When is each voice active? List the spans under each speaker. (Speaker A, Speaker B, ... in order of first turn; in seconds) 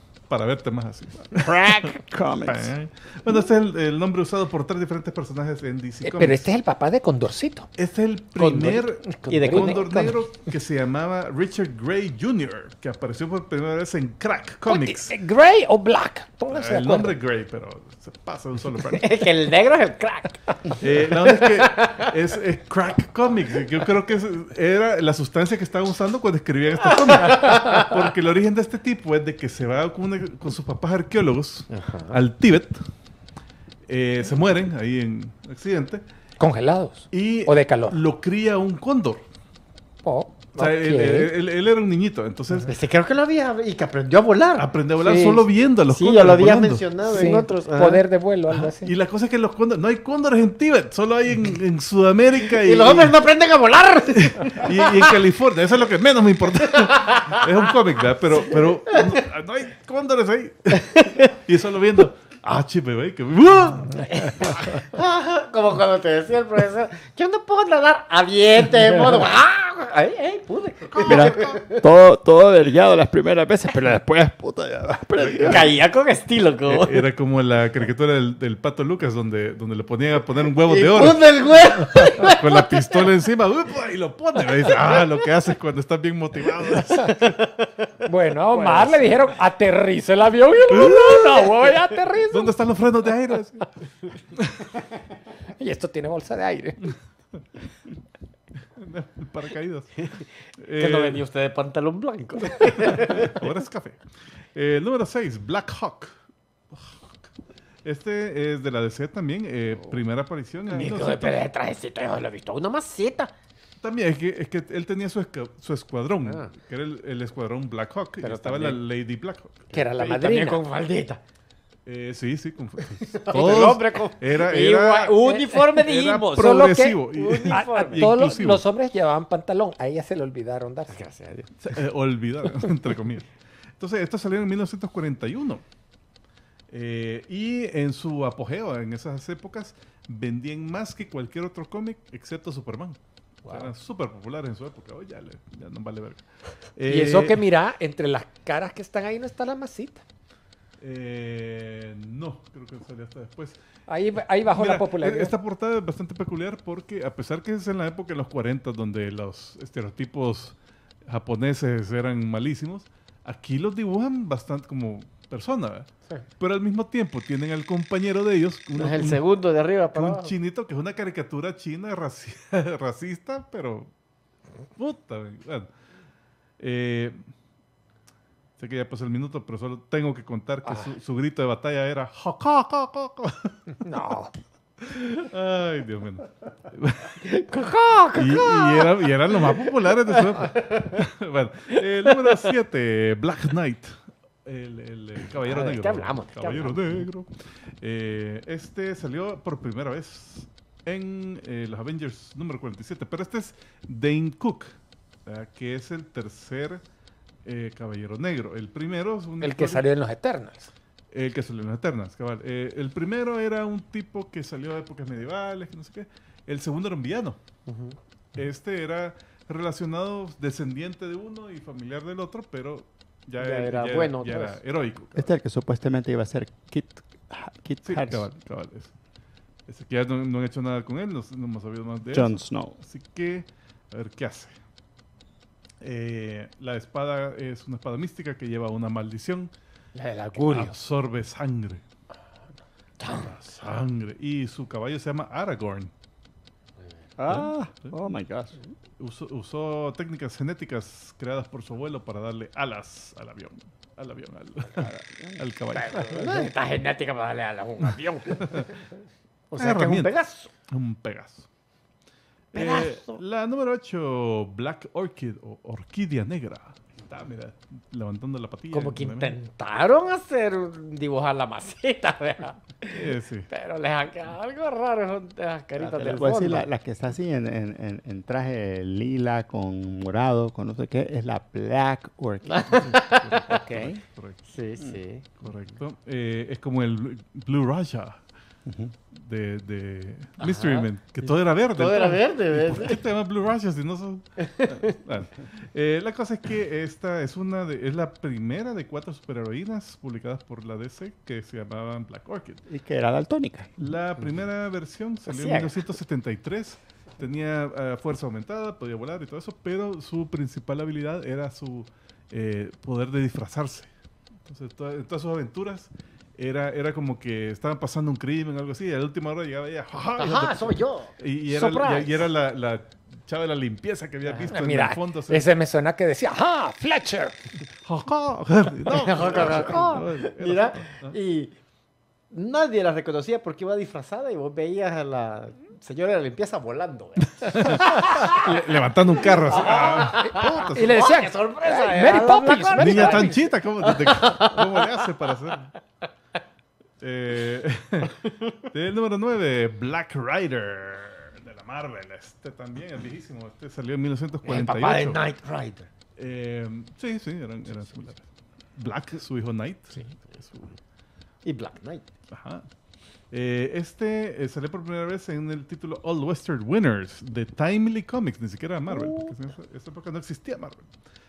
Speaker A: 0.3-6.5, 7.8-15.2, 16.5-19.2, 20.8-32.8, 33.9-36.0, 37.1-39.2, 40.6-42.7, 44.5-46.9, 48.5-53.2, 54.1-64.6, 71.0-71.3, 75.2-75.7, 76.7-87.3, 90.7-91.4, 92.3-93.7, 94.3-94.7, 98.8-101.2, 102.9-104.0, 104.5-106.2, 106.7-107.2, 107.8-111.5, 113.8-119.7, 121.8-125.2, 125.8-128.6, 131.6-135.6, 136.7-146.2, 146.8-147.4, 150.8-153.6, 154.5-169.2, 169.9-173.9, 174.8-175.7, 176.6-177.3, 178.6-183.6, 184.8-187.2, 188.1-197.3, 197.8-204.7, 205.2-206.8, 207.4-209.9, 211.1-217.4, 218.3-225.3, 227.8-228.9, 229.7-234.5, 235.8-239.5, 240.4-241.8, 243.1-245.9, 247.2-247.9, 249.0-256.4, 259.6-260.1, 260.7-261.5, 262.5-269.4, 272.9-273.5, 282.6-284.4, 285.4-288.2, 289.1-302.6, 303.8-313.9, 314.4-325.5, 327.8-331.2, 337.4-341.0, 342.7-345.7, 347.0-348.1, 348.7-355.2, 356.1-358.2, 358.8-360.8, 362.3-362.6, 363.3-370.9
Speaker B: 1.3-2.7, 71.0-75.7, 225.2-228.3, 232.1-232.8, 247.2-248.6, 275.8-282.8, 283.4-284.0, 288.6-288.9, 302.7-303.9
Speaker C: 6.0-7.7, 9.0-10.2, 14.7-17.2, 36.4-38.0, 40.0-41.3, 45.0-45.4, 47.0-48.9, 88.0-92.5, 95.6-97.0, 119.7-120.6, 125.2-131.0, 146.8-150.0, 153.9-155.3, 183.8-184.3, 209.4-210.7, 239.9-240.8, 324.5-327.4, 339.5-343.4
Speaker D: 8.3-9.9, 18.9-22.1, 27.1-27.8, 31.7-32.2, 42.6-44.7, 45.9-48.0, 52.5-55.1, 56.8-57.4, 64.1-71.8, 75.4-77.0, 80.5-83.0, 87.0-87.9, 88.5-89.1, 100.8-103.3, 110.7-113.3, 116.2-116.5, 118.2-118.8, 119.7-121.2, 122.9-128.0, 130.9-131.8, 168.7-170.3, 187.2-190.8, 195.3-197.1, 217.7-218.0, 223.4-224.6, 243.0-243.2, 255.8-258.8, 259.5-260.5, 262.5-263.2, 268.7-276.6, 282.5-283.6, 284.5-285.4, 290.4-293.0, 320.1-322.3, 324.2-324.5, 328.9-331.5, 332.3-338.4, 339.2-345.0, 348.2-348.5, 354.4-355.9, 357.7-358.0, 361.4-362.0, 368.9-369.3